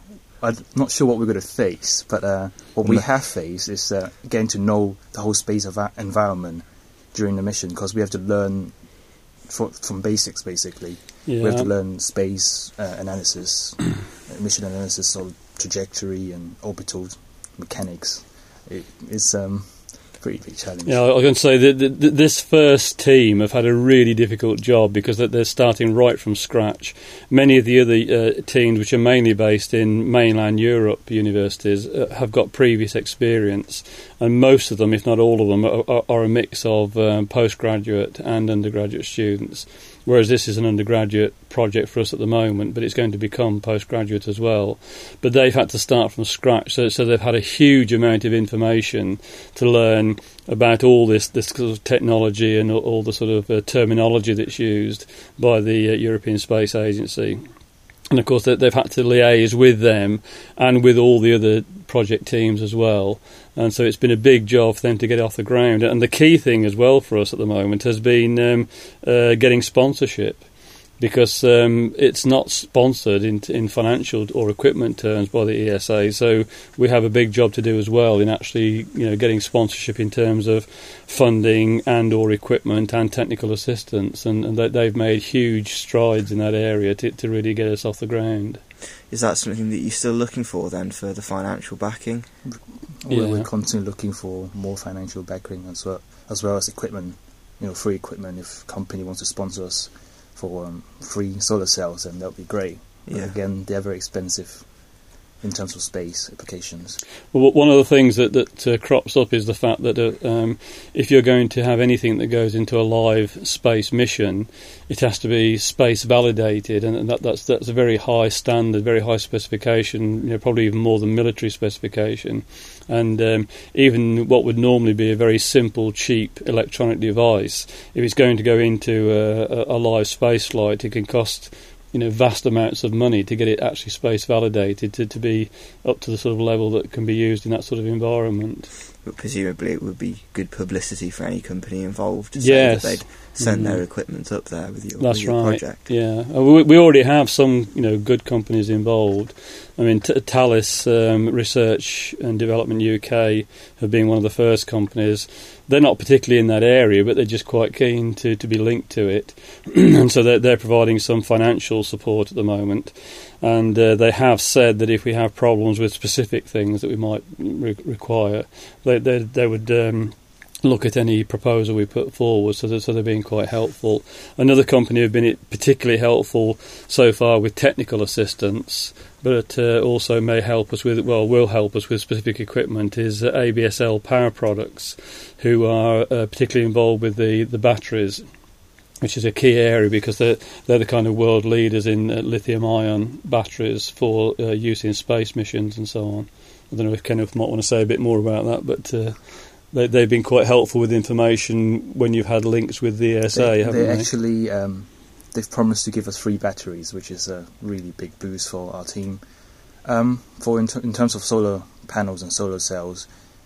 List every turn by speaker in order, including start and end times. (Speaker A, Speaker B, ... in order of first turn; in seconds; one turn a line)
Speaker A: 0.4-8.7
Speaker A: 9.5-21.0
Speaker B: 11.3-11.7
Speaker B: 20.9-57.4
Speaker B: 58.1-70.4
Speaker B: 71.0-88.6
Speaker C: 89.1-92.3
Speaker A: 93.0-104.6
Speaker B: 93.1-93.5
Speaker C: 103.1-103.3
Speaker A: 105.4-107.0
Speaker B: 107.3-138.7
Speaker C: 139.0-145.8
Speaker B: 142.4-143.8
Speaker B: 145.0-188.2
Speaker B: 189.0-199.2
Speaker B: 199.7-204.1
Speaker A: 203.3-209.2
Speaker A: 209.8-213.1